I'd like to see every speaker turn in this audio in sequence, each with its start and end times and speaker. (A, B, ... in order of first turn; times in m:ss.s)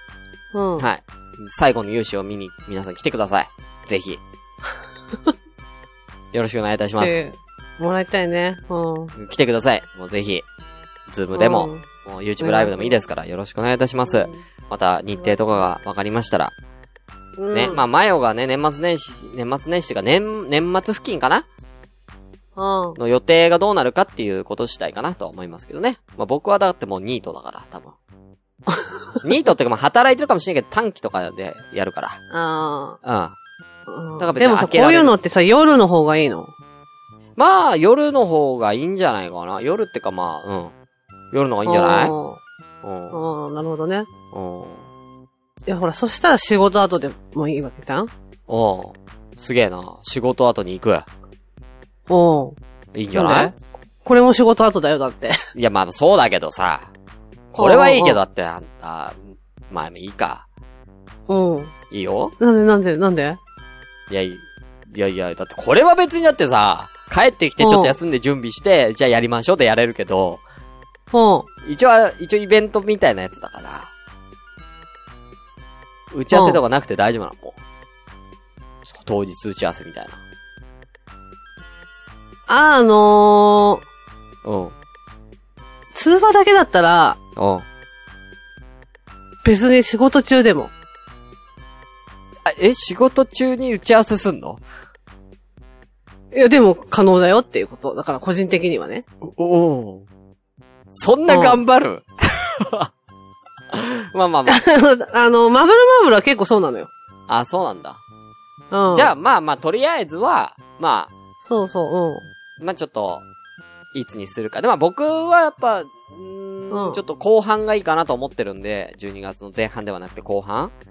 0:00.5-0:00.9 A
0:00.8-0:04.2 B
0:06.3-0:07.3 B
0:07.0-0:09.1 A
0:09.2-0:10.4 B
0:11.1-0:16.5 B
0:11.3-0:11.8 A
0:12.4-0:13.0 A
0:14.1-0:14.4 A
0:15.2-0:15.6 A
0:17.4-0:17.8 A
0:17.5-0:21.5 B
0:22.6-0:23.0 A
0:23.0-0:28.0 B
0:29.2-0:32.2 B
0:32.3-0:33.0 A
0:33.0-0:33.4 B
0:33.9-0:36.5 A
0:34.2-0:35.1 B
0:37.4-0:40.7 B
0:41.3-0:42.2 B
0:41.6-0:42.4 A
0:42.8-0:43.2 B
0:43.1-0:44.1 A
0:44.3-0:44.9 B
0:45.7-0:48.1 A
0:48.5-0:51.1 B
0:52.1-0:52.6 A
0:52.9-0:53.5 B
0:53.1-0:55.5 A
0:55.5-0:56.9 B
0:57.5-0:59.2 B
0:57.6-0:58.2 A
0:59.7-1:00.5 B
1:01.3-1:01.7 A
1:01.9-1:02.4 B
1:02.4-1:03.4 A
1:04.1-1:10.4 B
1:07.6-1:08.0 A
1:11.1-1:11.5 A
1:11.6-1:13.9 B
1:16.1-1:17.6 B
1:16.3-1:16.6 A
1:19.0-1:20.2 B
1:22.5-1:23.8 A
1:24.4-1:24.8 B
1:25.9-1:27.2 A
1:27.4-1:27.7 B
1:29.4-1:30.7 A
1:32.4-1:34.6 B
1:36.3-1:39.0 A
1:39.2-1:40.1 B
1:40.9-1:42.9 B
1:41.3-1:41.6 A
1:43.7-1:44.6 B
1:44.5-1:46.9 A
1:47.3-1:48.0 B
1:48.7-1:49.1 A
1:48.9-1:51.1 B
1:51.4-1:52.3 A
1:52.6-1:53.2 B
1:53.9-2:00.7 B
1:56.7-1:57.0 A